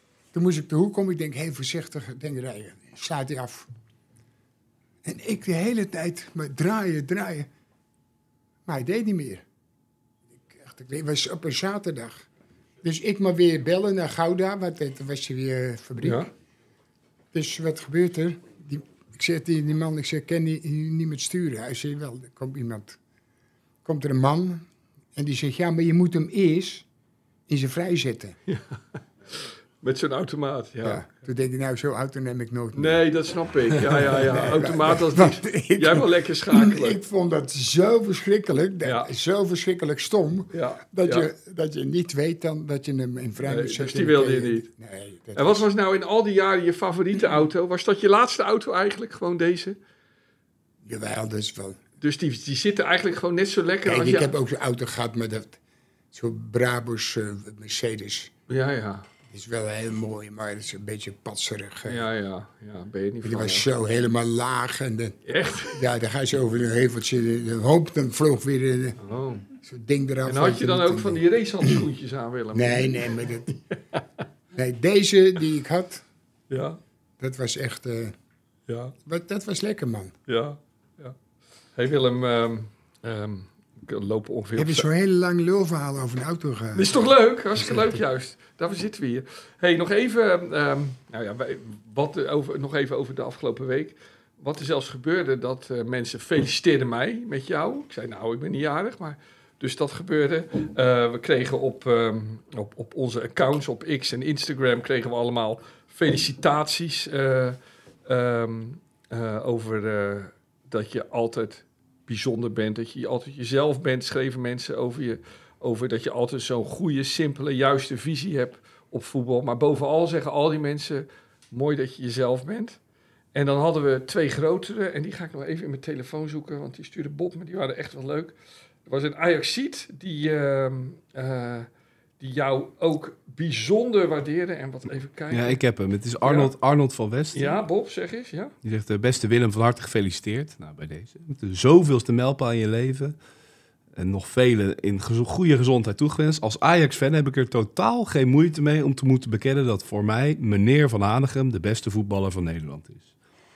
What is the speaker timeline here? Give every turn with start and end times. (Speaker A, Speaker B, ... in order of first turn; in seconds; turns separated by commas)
Speaker A: 0.3-3.7, Speaker A: 5.0-7.5, Speaker A: 8.7-9.4, Speaker A: 10.3-12.3, Speaker A: 12.8-16.3, Speaker B: 16.0-16.3, Speaker A: 17.3-23.0, Speaker A: 23.9-26.9, Speaker A: 27.5-28.4, Speaker B: 28.5-29.0, Speaker B: 29.8-31.0, Speaker A: 30.8-33.0, Speaker B: 32.7-37.0, Speaker A: 33.7-45.7, Speaker B: 38.8-39.1, Speaker B: 40.5-41.3, Speaker B: 43.4-44.7, Speaker B: 45.4-49.8, Speaker A: 50.8-51.8, Speaker B: 52.0-54.3, Speaker A: 53.9-55.6, Speaker A: 56.1-58.3, Speaker B: 58.5-59.1, Speaker A: 59.3-62.1, Speaker B: 61.9-63.7, Speaker A: 63.2-71.8, Speaker B: 65.2-65.8, Speaker B: 69.0-69.5, Speaker B: 70.3-74.0, Speaker A: 72.5-73.6, Speaker A: 74.5-76.0, Speaker B: 76.5-76.8, Speaker A: 77.2-78.1, Speaker B: 78.7-79.0, Speaker A: 79.0-80.1, Speaker B: 80.3-81.2, Speaker B: 81.8-84.9, Speaker A: 84.6-88.0, Speaker B: 86.8-122.8, Speaker B: 123.3-128.3, Speaker B: 128.9-131.7, Speaker B: 132.2-135.6, Speaker C: 135.3-137.6, Speaker B: 136.2-136.5, Speaker B: 137.3-138.5, Speaker C: 138.6-143.2, Speaker C: 144.0-153.1